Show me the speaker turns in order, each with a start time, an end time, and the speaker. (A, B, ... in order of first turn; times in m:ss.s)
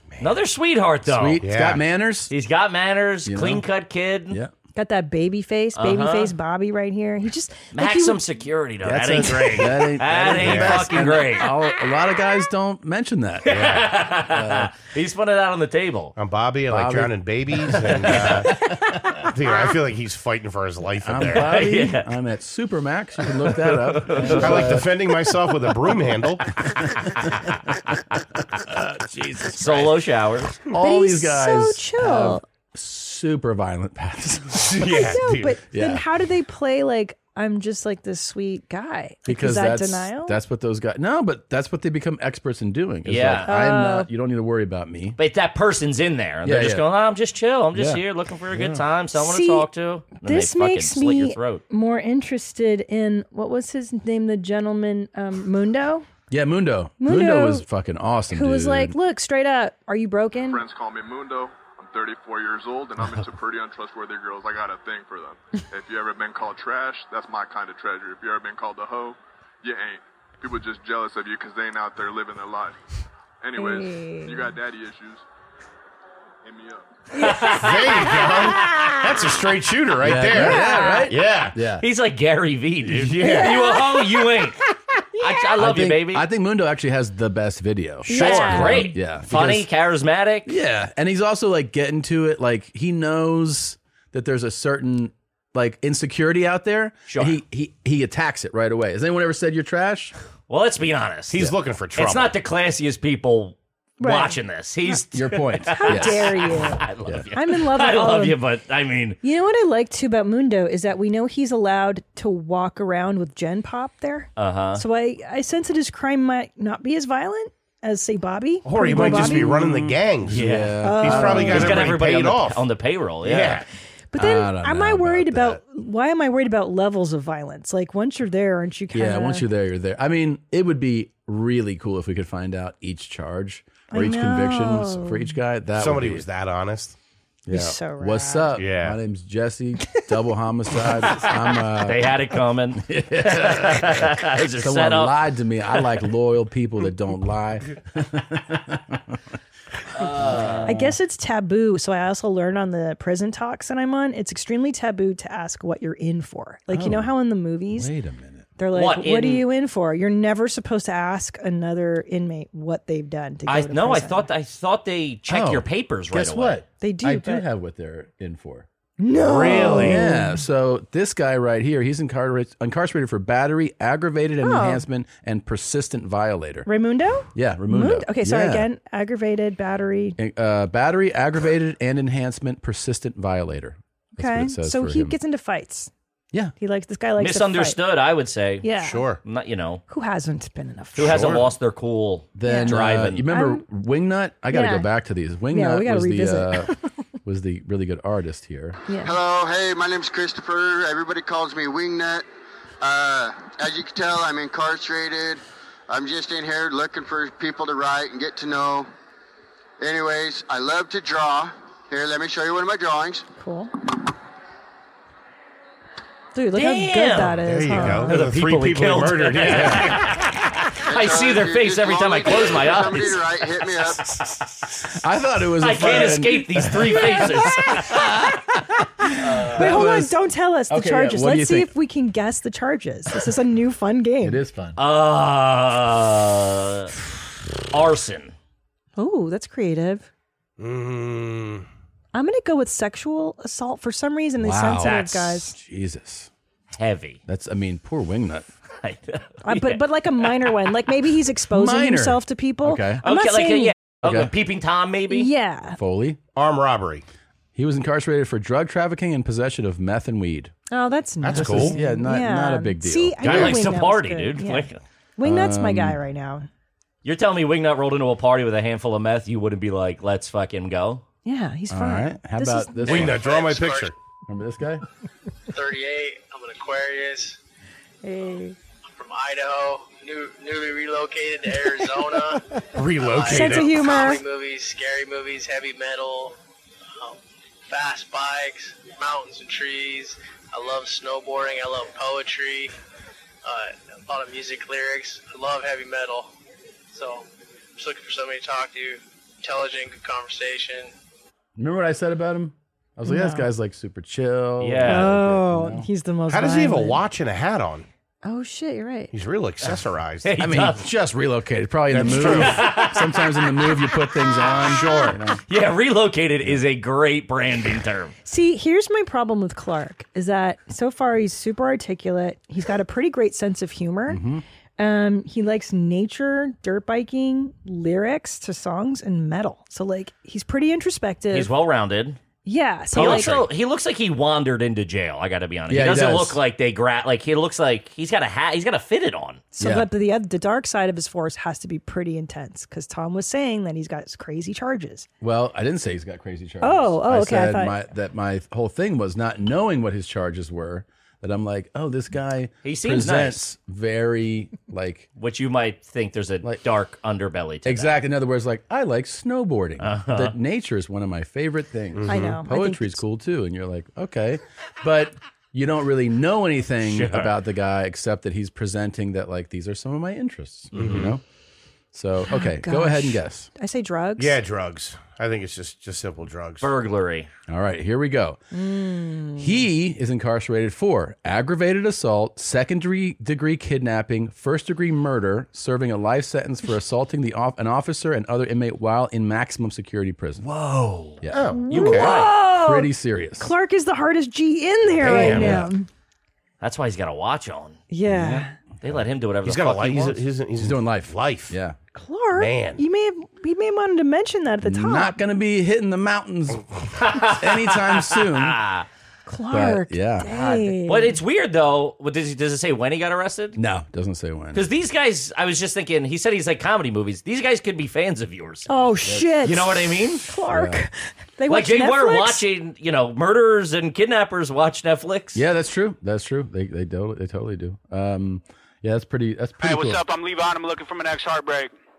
0:00.1-0:00.4 A
0:00.2-0:01.4 B
0:01.0-0:02.3 C
0:01.4-0:01.8 A
0:02.3-0:04.4 B
0:03.2-0:03.6 C
0:04.8-0:08.2 D
0:05.7-0:06.3 B
0:07.7-0:11.6 B
0:08.8-0:14.7 C
0:09.1-0:11.0 A
0:13.4-0:14.0 A
0:13.4-0:16.1 B
0:16.2-0:18.5 A
0:16.7-0:19.3 C
0:18.1-0:18.5 B
0:19.3-0:21.6 A
0:21.0-0:24.9 C
0:21.3-0:22.1 B
0:23.4-0:24.7 B
0:24.2-0:26.8 A
0:26.7-0:30.0 C
0:29.5-0:30.6 B
0:30.6-0:34.7 C
0:30.7-0:32.4 D
0:34.5-0:35.6 A
0:34.8-0:40.4 D
0:35.7-0:36.0 C
0:39.2-0:45.2 C
0:43.0-0:43.5 B
0:43.4-0:44.1 D
0:45.2-0:51.6 B
0:46.4-0:46.9 C
0:47.7-0:48.8 C
0:49.1-0:49.7 D
0:50.2-0:56.0 D
0:56.3-0:58.9 C
0:57.0-0:57.6 D
0:58.3-1:00.6 D
1:00.5-1:12.8 E
1:13.4-1:15.2 E
1:13.6-1:14.5 D
1:16.4-1:16.8 E
1:17.1-1:18.6 D
1:17.1-1:19.3 B
1:17.5-1:21.6 A
1:20.0-1:21.8 C
1:20.3-1:21.1 D
1:21.8-1:24.6 B
1:22.8-1:24.5 A
1:23.2-1:23.8 D
1:25.2-1:26.2 B
1:25.6-1:29.7 C
1:28.0-1:29.0 D
1:28.1-1:30.6 B
1:28.1-1:28.9 A
1:30.4-1:40.1 C
1:37.1-1:37.4 B
1:40.5-1:49.2 B
1:41.3-1:42.4 A
1:44.0-1:48.4 D
1:45.1-1:46.5 C
1:49.2-1:59.7 D
1:54.4-1:54.8 B
1:58.6-2:02.7 A
1:58.8-2:02.0 C
2:00.3-2:00.8 B
2:00.8-2:01.8 D
2:01.4-2:03.6 B
2:03.2-2:03.6 A
2:04.1-2:09.5 D
2:04.1-2:05.6 C
2:08.9-2:16.2 C
2:13.9-2:15.4 D
2:15.7-2:17.0 A
2:17.4-2:22.1 C
2:17.5-2:18.6 D
2:18.5-2:19.0 A
2:21.1-2:25.1 B
2:22.7-2:29.2 C
2:29.9-2:30.8 B
2:30.0-2:31.0 C
2:30.6-2:37.9 D
2:36.7-2:37.1 C
2:37.7-2:38.6 C
2:38.6-2:44.3 D
2:38.7-2:39.5 B
2:43.5-2:46.6 B
2:45.3-2:48.7 C
2:46.8-2:47.4 D
2:49.0-2:50.4 D
2:49.1-2:50.1 A
2:49.8-2:56.7 C
2:54.4-2:54.8 D
2:56.6-3:00.2 D
2:57.3-2:58.7 C
3:00.2-3:05.2 C
3:04.2-3:05.9 D
3:06.6-3:07.8 D
3:07.2-3:09.8 B
3:08.6-3:09.0 D
3:08.8-3:09.2 A
3:09.9-3:11.3 D
3:10.9-3:13.2 B
3:11.0-3:11.5 A
3:12.3-3:18.8 C
3:12.4-3:13.6 D
3:14.5-3:14.9 D
3:15.5-3:16.8 D
3:18.9-3:19.1 D
3:19.0-3:22.2 F
3:22.8-3:28.9 F
3:29.8-3:33.2 F
3:33.4-3:33.7 D
3:36.3-3:38.2 D
3:36.5-3:43.4 B
3:37.4-3:40.2 A
3:39.5-3:39.8 C
3:40.8-3:44.0 F
3:44.8-3:50.2 C
3:45.6-3:48.0 B
3:46.8-3:48.0 D
3:49.2-3:49.8 B
3:49.5-3:54.4 D
3:50.7-3:51.7 C
3:54.2-3:54.8 C
3:54.8-3:56.9 B
3:57.7-3:58.3 B
3:59.0-4:00.1 D
4:00.6-4:01.6 A
4:02.1-4:05.5 D
4:04.4-4:06.3 C
4:04.8-4:05.4 B
4:06.7-4:07.2 B
4:07.3-4:08.5 C
4:08.8-4:10.5 B
4:09.4-4:13.7 D
4:11.5-4:13.0 C
4:13.0-4:15.3 B
4:14.0-4:14.3 C
4:15.1-4:15.8 D
4:15.8-4:16.2 C
4:16.3-4:17.0 A
4:17.5-4:20.5 C
4:20.7-4:26.5 D
4:21.2-4:21.8 A
4:21.3-4:23.4 C
4:23.2-4:24.8 B
4:23.2-4:23.6 A
4:25.2-4:26.0 C
4:27.0-4:31.0 B
4:31.2-4:33.1 D
4:31.7-4:33.2 C
4:32.8-4:33.9 A
4:33.0-4:33.9 G
4:34.3-4:34.8 C
4:35.5-4:37.4 G
4:38.0-4:38.6 D
4:38.9-4:42.4 G
4:42.7-4:43.8 A
4:43.0-4:46.3 G
4:43.3-4:44.2 D
4:47.0-4:52.7 G
4:53.4-4:56.3 G
4:56.9-5:00.9 G
5:01.6-5:05.9 C
5:03.0-5:03.5 D
5:04.6-5:05.1 B
5:04.8-5:07.0 D
5:06.3-5:07.9 A
5:08.2-5:09.1 D
5:09.1-5:10.4 A
5:10.2-5:10.8 B
5:10.4-5:15.4 C
5:11.9-5:12.8 A
5:12.2-5:18.1 B
5:14.8-5:15.1 A
5:18.2-5:24.2 D
5:24.1-5:24.4 C
5:24.8-5:31.5 D
5:31.3-5:32.2 B
5:32.4-5:33.4 D
5:32.9-5:33.5 A
5:32.9-5:39.5 B
5:35.7-5:36.4 C
5:39.5-5:45.1 D
5:39.6-5:39.9 C
5:45.2-5:55.1 C
5:46.6-5:47.8 D
5:52.6-5:53.4 B
5:55.2-5:58.0 B
5:57.6-6:11.2 C
5:59.8-6:00.3 B
6:01.9-6:02.4 A
6:02.1-6:03.0 D
6:06.8-6:07.3 B
6:10.7-6:11.2 A
6:11.9-6:13.5 C
6:12.3-6:14.4 D
6:14.2-6:16.7 A
6:16.6-6:17.3 B
6:17.5-6:18.4 C
6:18.5-6:19.6 D
6:19.4-6:30.4 C
6:30.4-6:32.4 B
6:31.2-6:31.5 C
6:31.3-6:32.2 A
6:31.5-6:35.9 D
6:32.4-6:33.5 C
6:35.0-6:35.7 B
6:35.1-6:35.4 A
6:35.1-6:35.7 C
6:36.6-6:37.8 B
6:37.9-6:38.6 D
6:38.0-6:39.0 C
6:38.8-6:40.2 B
6:39.4-6:41.6 A
6:40.6-6:41.8 C
6:41.9-6:45.2 D
6:42.3-6:42.8 A
6:44.6-6:46.7 C
6:47.0-6:48.8 B
6:47.2-6:48.6 C
6:49.2-6:51.2 D
6:49.5-6:50.3 C
6:50.2-6:53.6 B
6:53.6-6:54.6 C
6:54.5-6:58.7 B
6:58.7-7:02.4 D
6:59.0-6:59.5 C
6:59.4-7:00.3 B
7:00.4-7:00.8 C
7:01.5-7:05.4 B
7:05.3-7:10.0 C
7:09.6-7:11.7 H